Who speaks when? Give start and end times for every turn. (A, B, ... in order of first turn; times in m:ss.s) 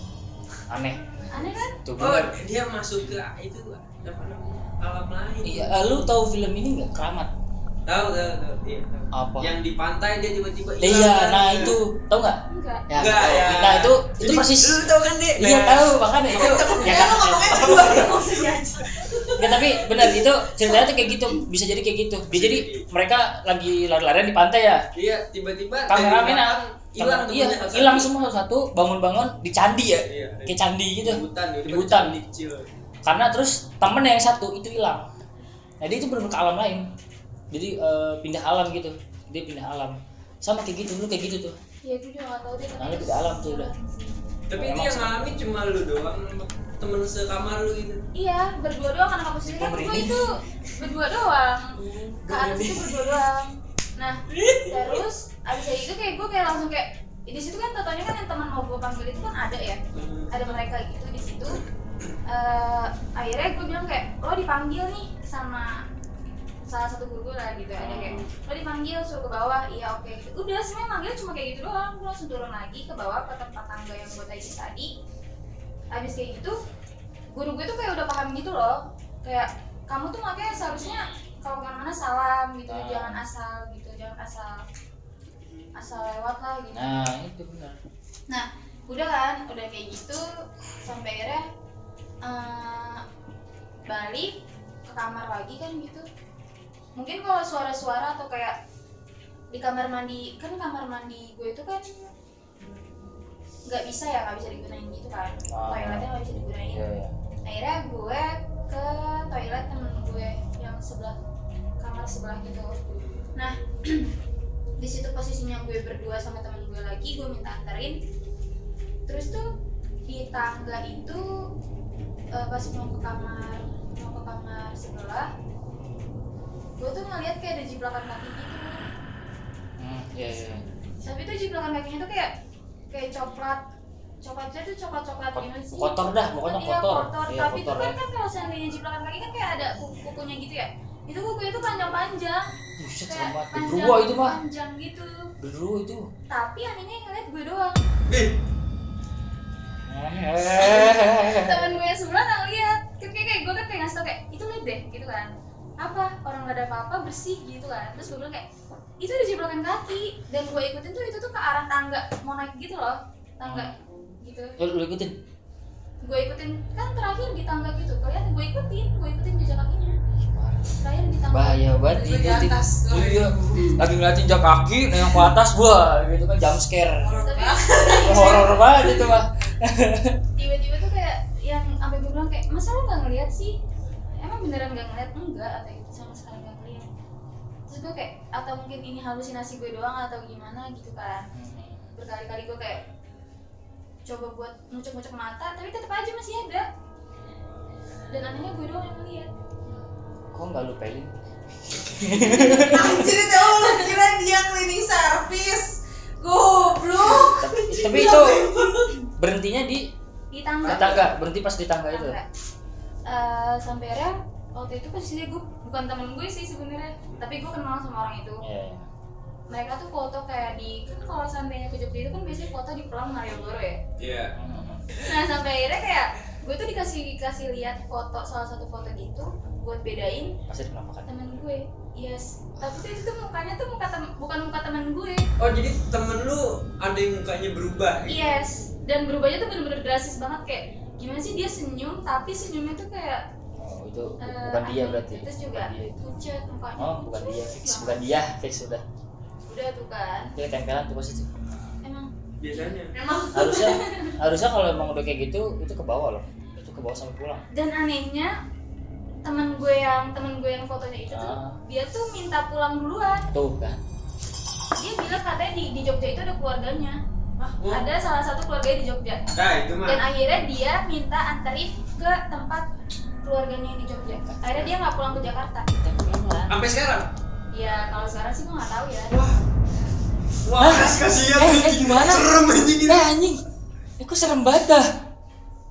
0:00.7-0:01.0 A
0:01.3-0:01.8 B
0:01.8-0:02.3 A
0:02.0-0:05.8 C
0:05.4-0:07.3 A
0:07.8-0:11.8 C
0:09.1-0:09.6 A
0:10.8-0:14.8 A
0:12.5-0:12.8 B
0:13.0-0:16.8 C
0:15.4-0:18.1 A
0:16.3-0:19.6 D
0:17.5-0:18.2 C
0:19.4-0:24.8 A
0:22.3-0:22.8 C
0:24.9-0:28.1 C
0:25.9-0:32.2 A
0:30.0-0:32.7 C
0:33.0-0:35.1 A
0:35.8-0:36.8 A
0:37.5-0:41.6 A
0:41.8-0:44.4 B
0:42.8-0:43.7 A
0:44.5-0:48.0 C
0:44.5-0:45.3 A
0:48.1-1:01.6 B
0:49.4-0:50.3 A
0:51.8-0:52.2 C
0:52.2-0:53.2 A
0:54.4-0:54.9 A
0:59.9-1:00.3 C
1:02.2-1:05.7 B
1:06.6-1:14.9 B
1:07.8-1:08.3 A
1:15.9-1:16.5 B
1:17.3-1:24.6 B
1:22.7-1:23.2 A
1:25.8-1:26.9 B
1:26.7-1:27.8 A
1:28.3-1:30.2 B
1:30.8-1:31.4 B
1:32.2-1:33.0 B
1:33.9-1:34.3 B
1:34.9-1:36.0 B
1:37.0-1:38.6 B
1:39.5-1:42.0 B
1:43.7-1:46.8 B
1:45.5-1:47.1 A
1:47.4-1:51.2 B
1:51.8-1:52.8 B
1:52.9-1:53.3 C
1:53.4-1:54.1 B
1:54.8-1:58.0 B
1:59.1-1:59.5 B
2:00.1-2:01.3 B
2:02.3-2:05.3 B
2:06.8-2:08.7 B
2:09.8-2:10.6 A
2:11.0-2:12.3 B
2:12.9-2:13.6 B
2:14.2-2:22.4 B
2:15.3-2:18.0 A
2:22.8-2:24.4 A
2:23.1-2:25.3 B
2:25.4-2:26.1 A
2:26.3-2:27.8 B
2:29.1-2:31.8 A
2:30.6-2:38.4 B
2:39.0-2:44.6 B
2:43.4-2:43.8 A
2:44.6-2:45.2 A
2:46.0-2:50.0 B
2:50.2-2:57.3 A
2:50.8-2:51.9 B
2:51.9-2:53.8 D
2:57.0-2:58.6 D
2:57.2-2:59.0 B
2:58.0-3:00.2 A
3:00.4-3:03.5 B
3:04.2-3:06.9 B
3:07.7-3:11.2 B
3:11.3-3:11.9 A
3:12.0-3:12.8 B
3:14.0-3:16.7 B
3:18.1-3:19.3 B
3:20.3-3:21.1 A
3:21.6-3:23.1 A
3:22.3-3:22.8 B
3:22.6-3:28.9 D
3:27.2-3:28.5 A
3:29.2-3:29.8 A
3:30.3-3:31.0 B
3:30.6-3:31.1 C
3:30.6-3:32.2 A
3:31.9-3:32.3 B
3:33.1-3:38.4 B
3:38.4-3:38.9 A
3:39.5-3:43.8 B
3:44.0-3:44.3 C
3:44.4-3:44.8 A
3:45.0-3:50.3 B
3:50.5-3:51.2 A
3:51.1-3:55.2 B
3:55.4-3:58.3 C
3:58.1-4:03.2 B
4:03.6-4:06.2 A
4:04.2-4:08.0 B
4:06.8-4:08.8 A
4:09.5-4:10.3 B
4:10.3-4:11.3 A
4:11.8-4:12.1 B
4:12.4-4:12.9 C
4:12.9-4:13.8 D
4:13.3-4:17.4 A
4:17.5-4:18.3 B
4:19.2-4:23.2 B
4:21.1-4:21.6 A
4:23.3-4:23.8 A
4:24.8-4:27.0 B
4:27.5-4:27.8 C
4:27.7-4:29.3 B
4:29.3-4:30.0 C
4:29.8-4:32.6 B
4:33.2-4:35.7 B
4:34.0-4:34.8 A
4:35.7-4:36.6 A
4:36.5-4:37.1 C
4:37.5-4:39.1 B
4:39.1-4:39.4 C
4:40.4-4:43.1 C
4:40.6-4:43.4 A
4:44.0-4:44.8 A